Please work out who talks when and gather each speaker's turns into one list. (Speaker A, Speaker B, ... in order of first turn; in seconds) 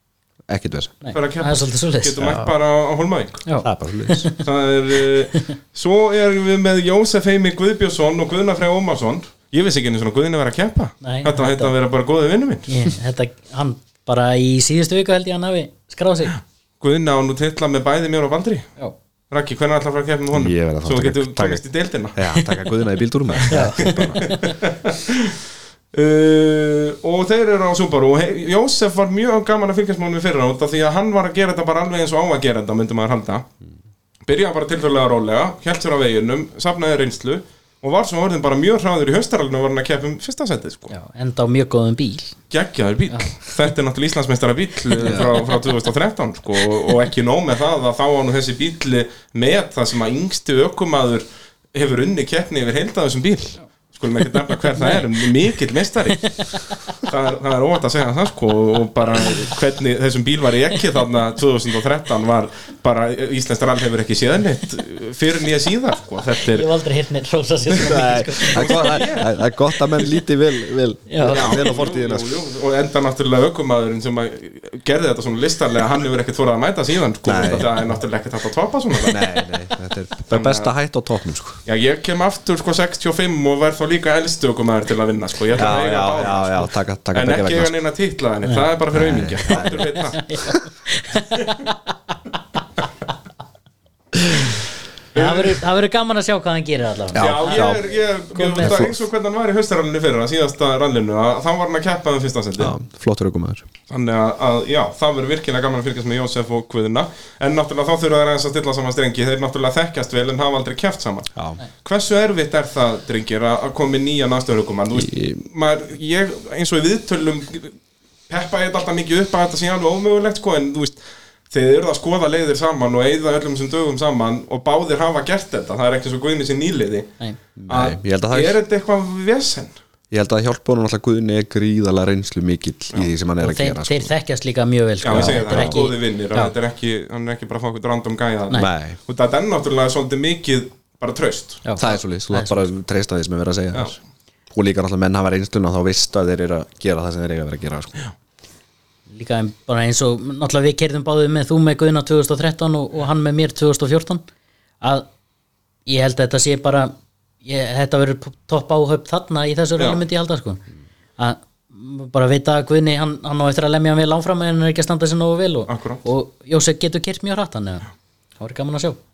Speaker A: 0.5-0.9, 2.2-2.5, 3.6-4.3, 20.3-21.6, 22.1-24.3, 45.0-45.3, 67.7-72.4, 77.2-77.7, 79.1-81.6, 85.5-87.7, 88.9-89.9, 97.1-97.8, 98.6-99.0, 102.6-103.6, 114.9-115.4, 127.6-128.6, 130.1-134.1, 135.1-135.8, 138.5-139.0, 141.8-143.9, 144.5-148.0
Speaker B: 1.0-2.4, 3.5-4.4, 11.0-11.7, 12.7-16.4, 23.5-24.6, 40.9-42.3, 43.1-43.3, 45.0-45.4, 54.7-55.2, 56.1-57.0, 66.5-69.1, 71.1-71.6, 89.5-92.3, 94.3-94.6, 95.1-98.9, 133.4-136.5, 141.6-142.6, 149.1-154.2, 154.8-155.1, 155.8-156.9, 157.4-160.6, 161.2-167.9, 168.4-169.0
Speaker C: 1.1-3.4, 4.4-12.7, 16.8-18.7, 19.3-22.2, 23.3-25.4, 25.9-33.5, 34.3-40.9, 42.5-56.5, 57.0-66.7, 68.4-69.3, 71.2-79.2, 80.3-80.7, 81.7-90.2, 95.1-95.6, 97.2-102.7, 103.9-117.8, 118.3-121.0, 121.5-127.1, 127.7-129.8, 135.0-141.8, 165.7-166.0